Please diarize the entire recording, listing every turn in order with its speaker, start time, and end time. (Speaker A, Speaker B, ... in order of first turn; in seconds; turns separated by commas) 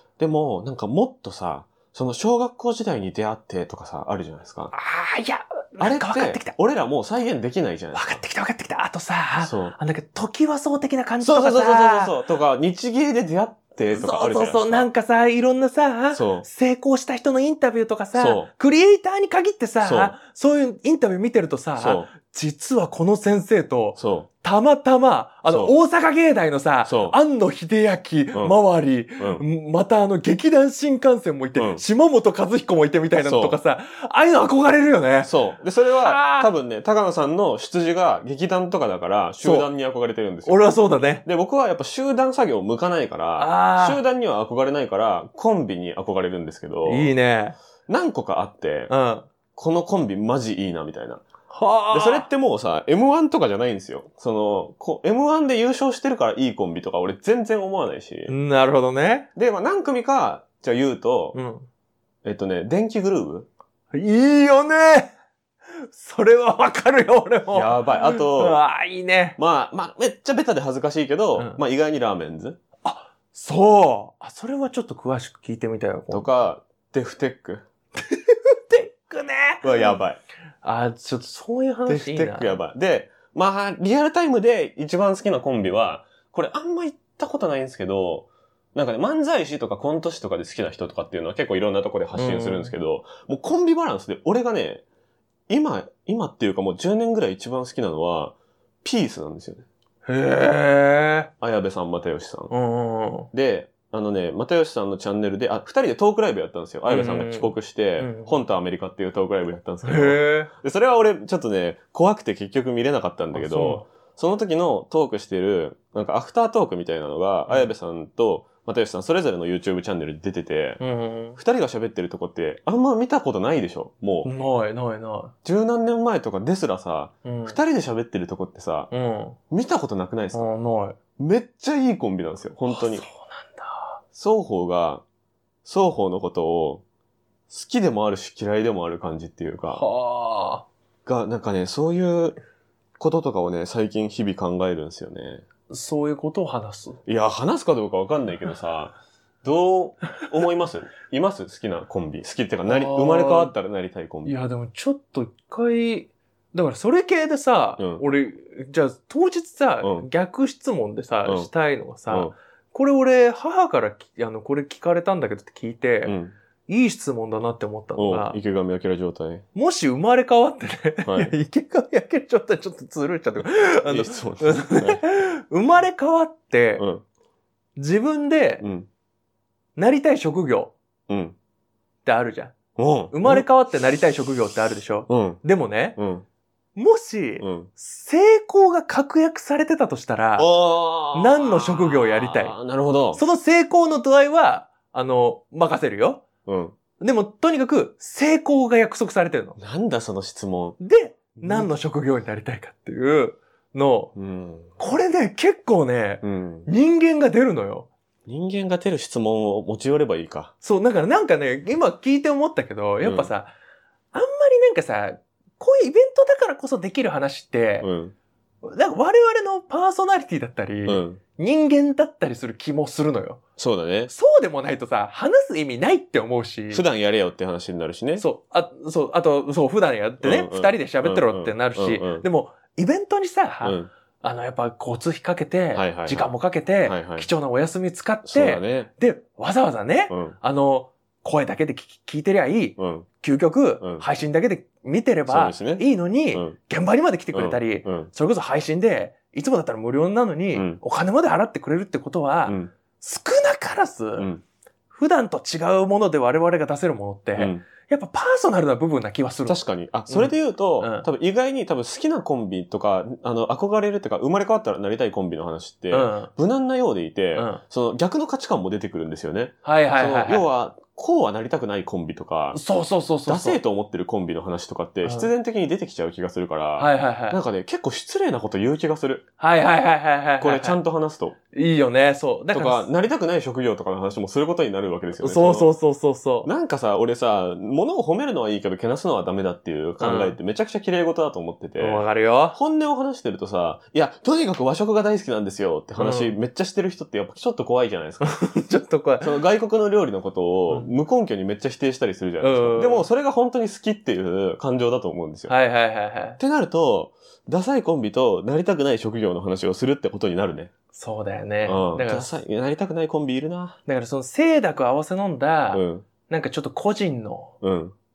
Speaker A: 0.2-4.7, Speaker B: 4.7-6.5, Speaker A: 5.8-8.2, Speaker B: 7.9-12.2, Speaker A: 9.4-9.7, Speaker A: 11.2-14.9, Speaker B: 13.9-35.3, Speaker A: 16.1-16.5, Speaker A: 18.1-18.5, Speaker A: 19.8-20.1, Speaker A: 21.8-22.1, Speaker A: 24.0-24.3, Speaker A: 25.5-25.8, Speaker A: 26.8-27.1, Speaker A: 28.3-28.6, Speaker A: 29.2-29.4, Speaker A: 31.6-31.8, Speaker A: 33.2-33.6, Speaker A: 35.2-47.1, Speaker B: 36.0-36.5, Speaker B: 39.4-39.7, Speaker B: 40.4-41.2, Speaker B: 43.4-44.0, Speaker B: 46.8-47.6, Speaker A: 47.9-48.9, Speaker B: 48.9-49.3, Speaker A: 49.5-51.2, Speaker B: 51.5-52.3, Speaker A: 51.9-58.3, Speaker B: 58.3-59.3, Speaker A: 59.4-61.4, Speaker B: 61.3-61.7, Speaker A: 62.2-63.5, Speaker B: 63.9-65.1, Speaker B: 65.7-69.4, Speaker A: 67.5-68.6, Speaker A: 69.4-72.6, Speaker B: 71.3-71.6, Speaker B: 72.8-76.3, Speaker A: 76.1-77.6, Speaker B: 78.0-80.0, Speaker A: 79.6-80.2, Speaker B: 80.6-82.6, Speaker A: 81.9-94.8, Speaker B: 92.1-92.7, Speaker A: 95.5-99.7, Speaker B: 100.0-101.3, Speaker A: 101.4-102.5, Speaker B: 102.5-103.3, Speaker A: 103.3-120.8, Speaker B: 106.8-108.4, Speaker B: 109.8-110.5, Speaker B: 113.3-113.9, Speaker B: 117.5-117.7, Speaker B: 120.8-121.4, Speaker A: 121.4-124.3, Speaker B: 124.2-125.3, Speaker A: 125.4-128.9, Speaker B: 127.2-127.6, Speaker B: 128.9-129.4, Speaker A: 129.5-130.4, Speaker B: 130.3-130.9, Speaker A: 131.2-133.0, Speaker B: 132.7-134.0, Speaker A: 134.1-135.0, Speaker A: 135.6-136.8, Speaker A: 137.5-139.8, Speaker B: 139.7-140.7, Speaker A: 141.1-142.4, Speaker A: 143.0-145.4, Speaker B: 145.7-147.0, Speaker A: 147.1-154.3, Speaker B: 152.6-153.5, Speaker B: 154.2-168.4, Speaker A: 157.8-158.0, Speaker A: 159.8-160.1, Speaker A: 161.2-161.5, Speaker A: 162.1-162.3, Speaker A: 166.0-166.3, Speaker A: 168.0-169.4, Speaker B: 169.5-176.8, Speaker A: 171.0-171.3, Speaker A: 173.8-175.0, Speaker A: 176.8-177.0, Speaker B: 177.8-178.6, Speaker A: 178.6-178.9, Speaker B: 179.8-180.7, Speaker A: 181.1-181.3, Speaker B: 182.0-182.6, Speaker A: 182.8-183.4, Speaker B: 183.1-186.0, Speaker A: 185.1-185.4, Speaker A: 186.0-186.2, Speaker B: 186.7-190.5, Speaker A: 187.4-187.7, Speaker A: 190.4-193.2, Speaker B: 191.1-192.6, Speaker B: 193.1-196.2, Speaker A: 196.4-196.8, Speaker B: 197.0-199.6, Speaker A: 199.6-200.8, Speaker B: 200.8-204.1, Speaker A: 201.4-201.7, Speaker A: 204.2-204.8, Speaker B: 204.8-207.9, Speaker A: 206.2-206.7, Speaker A: 208.3-210.5, Speaker B: 210.6-213.5, Speaker A: 213.0-213.3, Speaker B: 214.1-217.9, Speaker A: 217.8-218.1, Speaker B: 218.6-223.4, Speaker A: 220.8-221.2, Speaker A: 223.6-224.1, Speaker B: 224.1-226.8, Speaker A: 226.7-228.3, Speaker B: 228.2-254.3, Speaker A: 230.2-232.2, Speaker A: 233.6-233.9, Speaker A: 235.7-236.3, Speaker A: 236.8-237.3, Speaker A: 238.2-238.9, Speaker A: 240.1-240.3, Speaker A: 242.8-243.1, Speaker A: 243.8-244.1, Speaker A: 245.3-246.6, Speaker A: 247.3-248.1, Speaker A: 250.5-250.8, Speaker A: 252.5-252.7, Speaker A: 254.2-254.4, Speaker B: 254.9-261.1, Speaker A: 257.4-257.6, Speaker A: 259.4-272.6, Speaker B: 265.9-266.3, Speaker B: 267.3-267.6, Speaker B: 269.6-270.4, Speaker B: 272.5-273.6, Speaker A: 273.3-279.2, Speaker B: 275.0-275.3, Speaker B: 276.8-277.4, Speaker B: 279.4-280.8, Speaker A: 280.4-281.4, Speaker B: 281.5-282.9, Speaker A: 282.5-285.7, Speaker B: 285.2-286.5, Speaker A: 286.4-298.3, Speaker B: 290.0-290.4, Speaker B: 291.8-292.6, Speaker B: 296.0-296.4, Speaker B: 298.2-299.4, Speaker A: 299.2-305.5, Speaker B: 302.4-303.1, Speaker B: 305.5-306.4, Speaker A: 306.4-310.7, Speaker B: 310.9-312.4, Speaker A: 311.6-313.8, Speaker B: 313.9-317.5, Speaker A: 315.7-316.1, Speaker A: 317.6-317.9